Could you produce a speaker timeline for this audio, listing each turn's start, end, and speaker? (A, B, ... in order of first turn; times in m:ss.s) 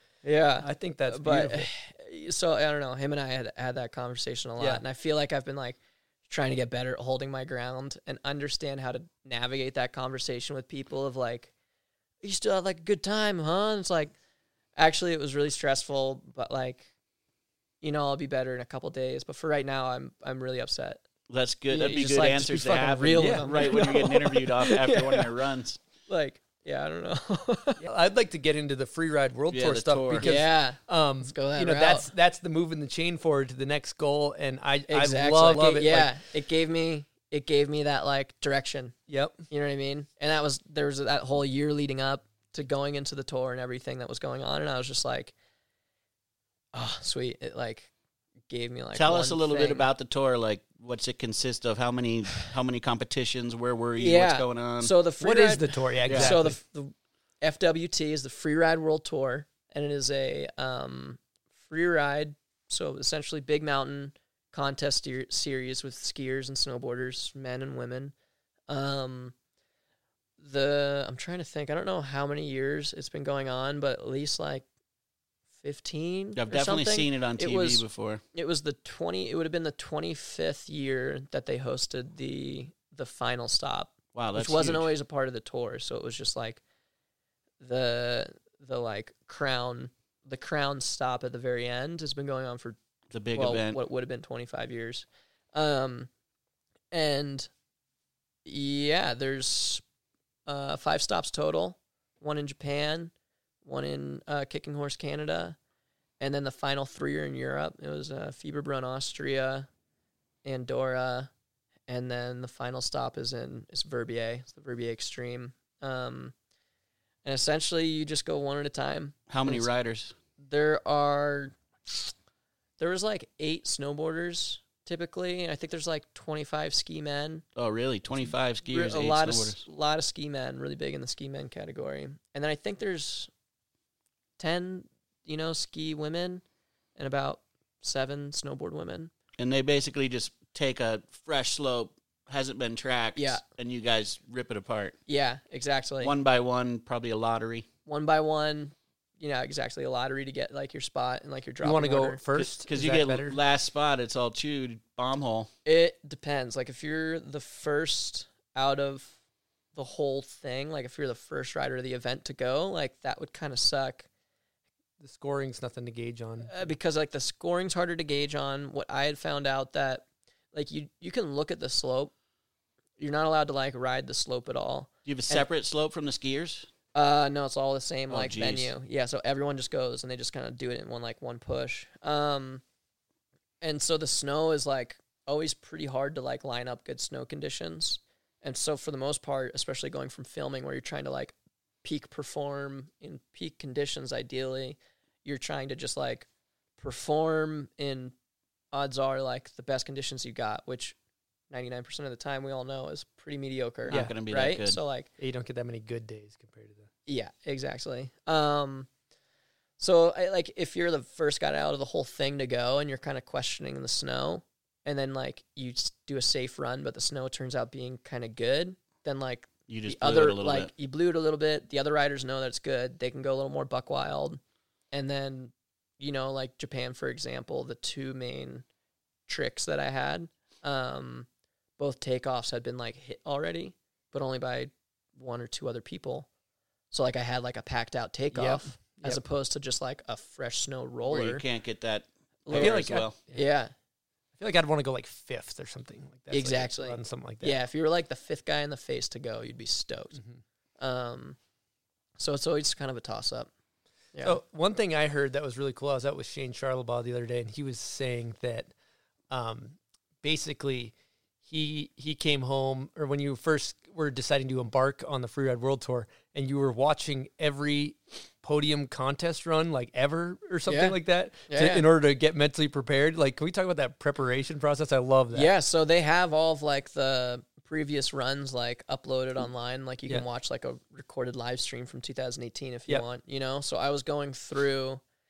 0:00.2-0:11.5 A
0:00.6-0:01.7 B
0:12.2-0:14.1 A
0:14.8-0:16.9 A
0:17.8-0:21.0 A
0:21.3-0:25.8 C
0:21.7-0:25.3 A
0:23.2-0:23.8 B
0:26.1-0:27.8 A
0:27.8-0:36.2 B
0:29.5-0:30.3 C
0:30.2-0:32.1 A
0:34.9-0:38.9 A
0:39.1-0:39.4 B
0:39.5-0:45.3 A
0:46.7-0:47.9 A
0:48.5-0:49.9 A
0:48.9-0:54.9 C
0:54.0-1:08.1 A
0:55.2-0:56.6 B
0:56.1-0:56.3 C
1:08.7-1:09.3 A
1:10.4-1:14.6 A
1:15.6-1:26.6 A
1:16.3-1:18.2 C
1:24.1-1:24.9 C
1:27.6-1:32.8 A
1:33.1-1:33.8 C
1:33.3-1:36.1 A
1:36.9-1:37.5 A
1:38.4-1:39.8 A
1:40.5-1:43.1 A
1:43.6-1:45.6 A
1:46.2-1:49.7 A
1:50.4-1:51.3 A
1:51.9-1:56.3 A
1:57.2-1:59.7 A
1:59.3-2:00.1 C
2:00.4-2:01.5 A
2:02.8-2:07.4 A
2:07.6-2:09.6 C
2:08.7-2:13.3 A
2:14.4-2:16.4 A
2:17.0-2:19.1 A
2:19.4-2:25.0 C
2:23.2-2:23.4 A
2:25.1-2:26.1 A
2:26.0-2:27.7 C
2:27.8-2:32.2 A
2:31.6-2:33.4 B
2:32.4-2:35.5 C
2:35.6-2:39.1 A
2:39.7-2:44.1 A
2:45.0-2:46.5 B
2:46.4-2:52.1 A
2:53.0-2:55.4 A
2:55.0-2:56.7 C
2:56.9-3:02.6 A
2:58.1-2:58.7 C
3:03.6-3:16.3 A
3:16.8-3:18.1 A
3:18.7-3:21.0 A
3:21.5-3:25.1 A
3:23.9-3:24.8 C
3:23.9-3:24.2 B
3:25.2-3:26.9 B
3:27.1-3:28.9 A
3:29.8-3:44.4 A
3:39.7-3:40.7 C
3:44.9-3:48.6 A
3:49.3-3:51.3 A
3:51.8-3:56.3 A
3:56.9-4:01.4 A
3:58.3-3:59.2 B
4:01.1-4:03.2 C
4:02.4-4:03.7 A
4:02.5-4:03.4 B
4:04.4-4:07.6 B
4:06.3-4:10.2 A
4:10.8-4:11.4 A
4:12.2-4:13.5 A
4:14.1-4:14.4 A
4:14.2-4:18.7 B
4:19.3-4:20.9 B
4:21.4-4:35.5 B
4:30.7-4:31.0 A
4:31.5-4:31.8 A
4:35.3-4:45.0 A